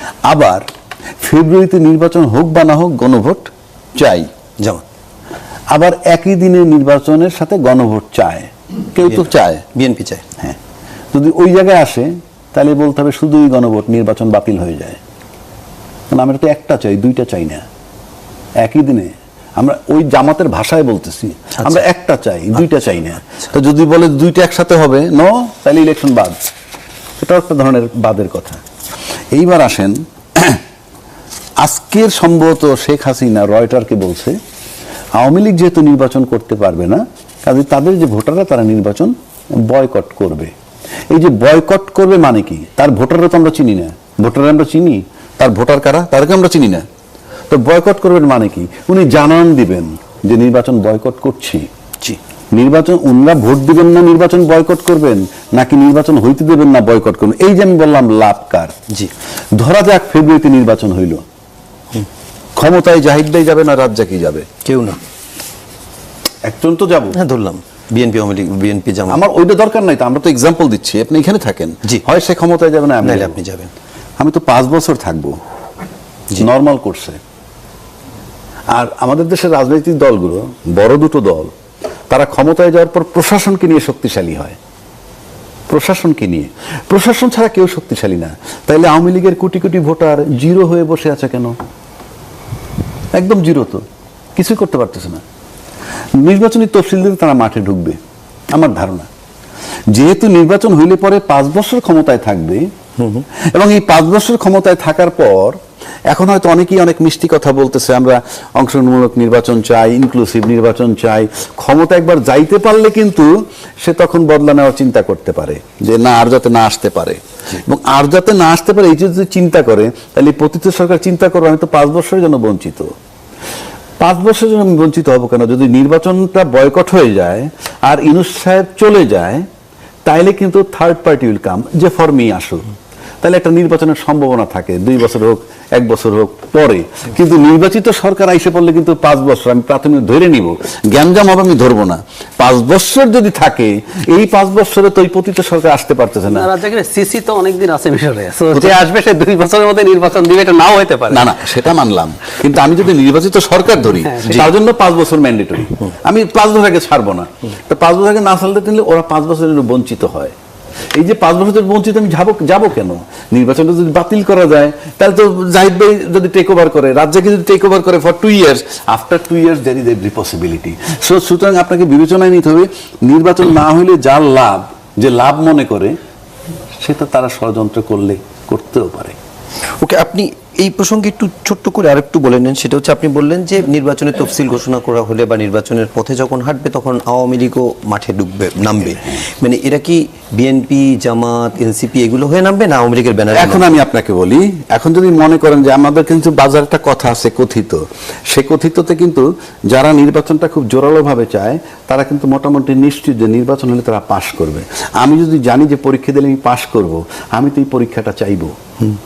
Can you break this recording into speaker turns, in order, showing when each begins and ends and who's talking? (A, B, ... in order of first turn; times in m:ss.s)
0:00.3-0:00.6 A
0:01.2-0:04.3 A
0:05.7-0:09.6 A
0:09.1-0:10.2 B
0:11.1-0:15.0 A
0:16.1-0:17.6 A
0:18.6-0:26.4 A
0:21.6-0:21.8 B
0:27.2-0:28.6 A
0:29.3-0:30.6 A
0:31.6-0:34.4 A
0:35.2-0:40.5 A
0:41.1-0:46.8 A
0:47.5-0:51.7 A
0:52.5-0:58.8 A
0:59.5-1:01.2 A
1:02.6-1:04.5 A
1:04.6-1:05.0 B
1:06.4-1:07.2 A
1:07.1-1:09.2 B
1:09.1-1:13.4 A
1:13.0-1:13.7 B
1:14.2-1:15.4 A
1:16.4-1:17.2 A
1:18.7-1:21.5 A
1:22.1-1:24.6 A
1:25.7-1:31.6 A
1:33.1-1:33.8 A
1:34.4-1:35.2 A
1:36.2-1:38.0 A
1:38.5-1:39.1 A
1:39.9-1:42.7 A
1:43.0-1:43.2 B
1:43.4-1:45.6 A
1:46.1-2:02.9 A
2:04.0-2:09.5 A
2:10.0-2:12.7 A
2:13.2-2:26.5 A
2:26.3-2:31.3 C
2:31.1-2:40.3 A
2:34.0-2:34.4 C
2:40.9-2:56.0 A
2:56.8-2:59.2 A
2:59.8-3:13.8 B
3:13.4-3:28.6 A